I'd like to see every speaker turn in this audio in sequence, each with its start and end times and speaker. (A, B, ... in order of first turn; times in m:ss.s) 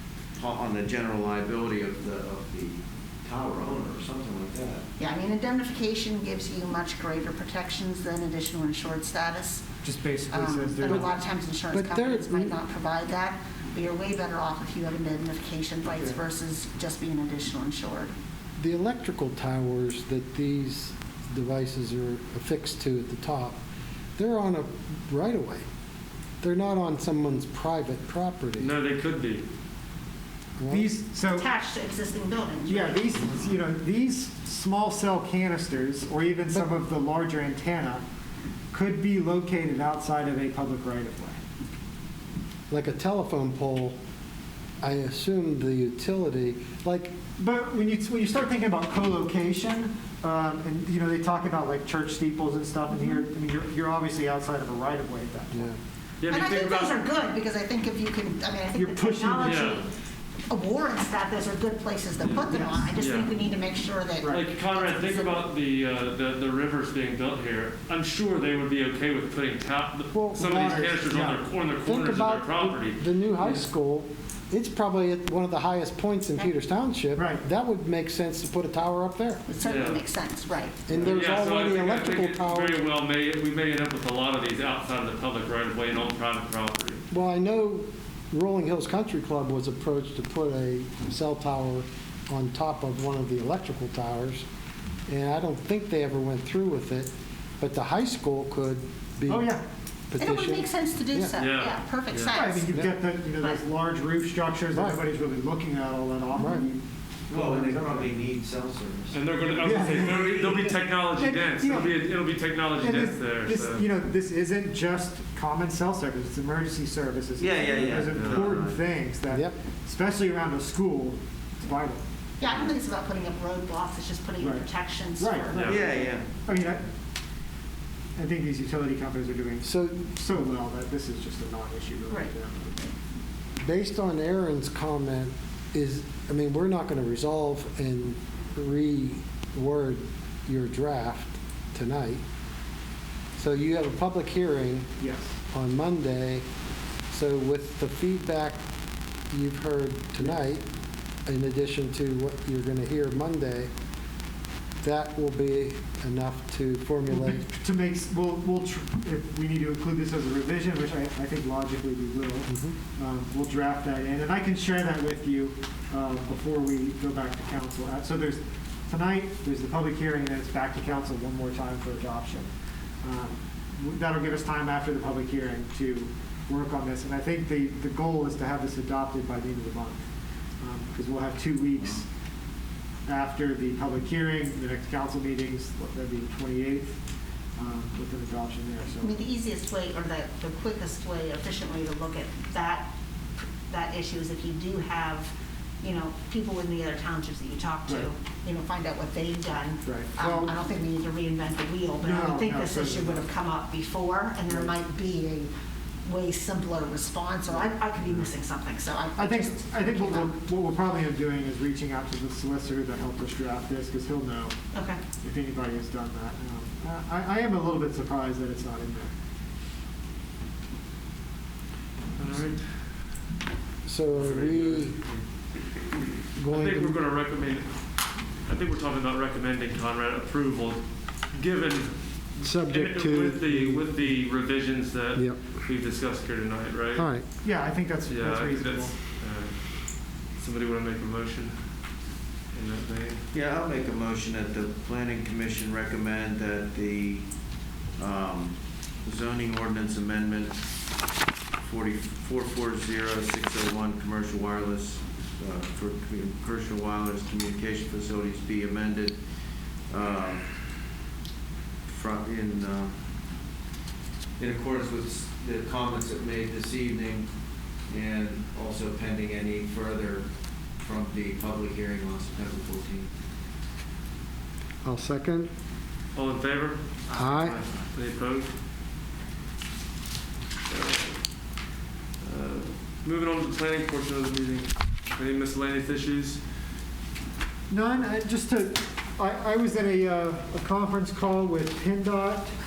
0:00.4-0:04.9 A
0:05.0-0:18.1 B
0:09.8-0:11.1 C
0:11.7-0:12.5 D
0:18.6-0:23.6 D
0:24.2-0:25.6 D
0:26.4-0:28.8 D
0:28.6-0:29.4 E
0:30.6-0:30.9 D
0:30.7-0:31.5 C
0:31.2-0:33.2 B
0:32.7-0:38.0 C
0:38.7-0:41.4 C
0:42.7-0:44.0 D
0:44.8-0:47.2 D
0:47.4-0:55.7 C
0:55.5-0:55.8 D
0:56.2-0:57.0 E
0:56.3-0:59.9 B
0:58.7-0:59.8 C
0:59.4-0:59.8 E
1:00.5-1:05.5 B
1:02.2-1:03.4 E
1:02.5-1:02.8 C
1:04.2-1:04.4 C
1:04.2-1:13.6 E
1:10.1-1:11.0 D
1:10.4-1:11.4 C
1:11.8-1:19.4 D
1:17.2-1:17.4 C
1:19.5-1:20.9 B
1:19.6-1:20.0 E
1:20.9-1:22.8 D
1:20.9-1:27.0 E
1:27.1-1:34.4 D
1:35.1-1:39.6 D
1:39.3-1:39.6 C
1:40.1-1:41.4 D
1:40.2-1:43.6 B
1:41.4-1:42.4 E
1:42.3-1:48.1 C
1:44.7-1:45.0 D
1:46.4-1:46.6 D
1:47.3-1:50.6 A
1:49.1-1:53.9 E
1:49.6-1:52.0 C
1:52.8-2:02.0 C
1:57.4-1:58.8 A
1:58.1-1:58.5 E
1:59.3-1:59.6 D
2:02.4-2:05.7 B
2:04.4-2:06.9 C
2:05.5-2:05.8 E
2:05.6-2:06.3 A
2:08.2-2:12.9 C
2:09.6-2:10.1 D
2:13.6-2:22.2 D
2:23.4-2:25.0 D
2:25.0-2:25.4 C
2:25.5-2:26.4 D
2:27.1-2:28.6 D
2:29.3-2:30.6 D
2:31.2-2:33.7 D
2:34.8-2:37.4 D
2:37.1-2:52.5 C
2:42.5-2:42.8 D
2:53.0-3:00.0 C
3:00.6-3:02.1 C
3:03.1-3:07.0 C
3:07.6-3:09.2 C
3:09.0-3:25.5 B
3:19.8-3:20.5 C
3:22.0-3:23.2 C
3:24.5-3:24.8 C
3:26.0-3:30.4 B
3:29.2-3:34.6 C
3:34.7-3:35.1 B
3:35.1-3:39.1 C
3:42.2-3:42.9 E
3:43.8-3:45.0 D
3:44.1-3:45.2 E
3:46.4-3:47.0 D
3:46.5-3:57.1 E
3:52.4-3:53.9 D
3:55.1-3:55.6 D
3:56.9-3:57.2 D
3:57.4-3:58.9 C
3:58.1-4:01.7 E
4:02.5-4:03.2 E
4:03.3-4:07.3 A
4:07.9-4:10.6 A
4:11.6-4:19.2 A
4:19.9-4:20.5 A
4:21.9-4:23.0 A
4:24.4-4:27.3 A
4:27.9-4:33.1 A
4:34.8-4:35.5 D
4:36.1-4:38.5 E
4:37.1-4:37.6 D
4:37.1-4:37.9 A
4:40.7-4:41.2 E
4:42.2-4:46.4 E
4:47.7-4:52.5 C